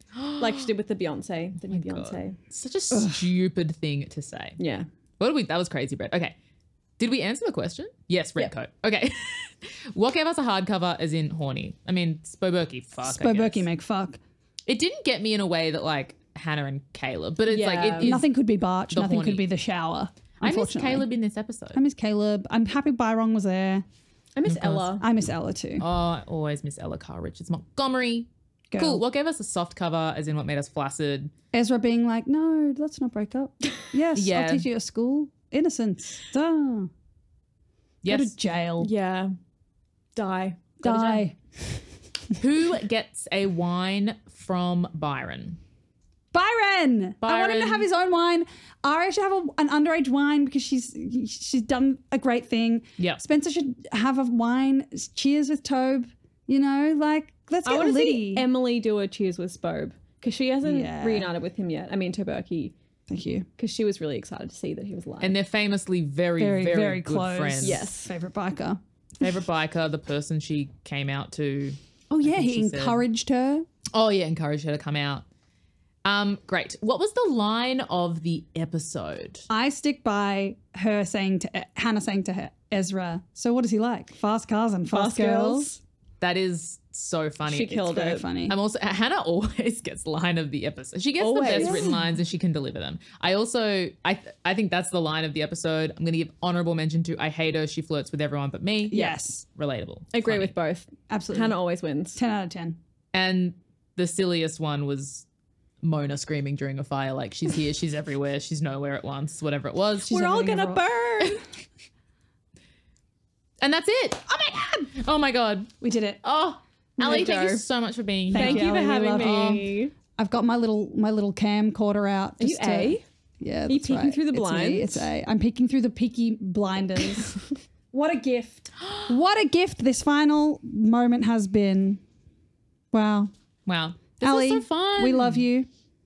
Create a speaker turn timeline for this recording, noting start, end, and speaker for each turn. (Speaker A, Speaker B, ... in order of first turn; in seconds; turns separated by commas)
Speaker A: 0.1-0.6, Speaker B: 0.3-2.4, Speaker A: 1.7-4.6, Speaker C: 2.9-3.2, Speaker B: 4.6-4.9, Speaker A: 5.2-6.3, Speaker A: 7.0-13.6, Speaker C: 13.0-14.2, Speaker A: 14.7-18.3, Speaker B: 17.5-18.2, Speaker C: 18.0-21.1, Speaker A: 18.9-19.5, Speaker A: 20.4-21.8, Speaker C: 21.7-23.8, Speaker B: 24.4-25.0, Speaker A: 24.4-24.9, Speaker C: 25.0-25.8, Speaker A: 25.8-31.3, Speaker C: 28.7-29.0, Speaker C: 31.5-36.9, Speaker A: 34.1-34.7, Speaker A: 38.0-38.3, Speaker C: 38.0-38.9, Speaker B: 38.8-39.3, Speaker B: 40.1-41.2, Speaker C: 40.8-41.4, Speaker A: 42.3-45.6, Speaker C: 46.3-58.5, Speaker A: 47.2-47.9, Speaker A: 53.0-53.2, Speaker B: 57.6-62.7, Speaker C: 60.6-61.3, Speaker C: 63.1-63.5, Speaker B: 63.6-65.4, Speaker A: 65.2-67.9, Speaker C: 66.4-68.8, Speaker B: 67.6-68.1, Speaker A: 69.2-73.0, Speaker C: 72.1-73.7, Speaker A: 73.9-75.2, Speaker A: 76.0-79.5, Speaker C: 79.5-85.7, Speaker B: 84.9-85.8, Speaker A: 86.2-87.8, Speaker B: 87.5-88.2, Speaker C: 87.8-88.6, Speaker A: 88.5-100.5, Speaker B: 91.2-91.9, Speaker C: 91.5-91.9, Speaker B: 98.9-99.2, Speaker C: 98.9-99.4, Speaker B: 100.1-102.2, Speaker C: 101.1-101.6, Speaker C: 102.1-102.8, Speaker A: 103.1-105.2, Speaker A: 105.8-110.6, Speaker C: 110.0-111.4, Speaker B: 110.2-111.0, Speaker A: 113.6-119.6, Speaker C: 115.8-116.2, Speaker B: 117.0-117.6, Speaker C: 118.3-132.0, Speaker B: 118.3-119.9, Speaker B: 122.4-123.0, Speaker B: 123.7-125.1, Speaker C: 132.9-133.3, Speaker A: 133.7-135.4, Speaker C: 134.2-135.7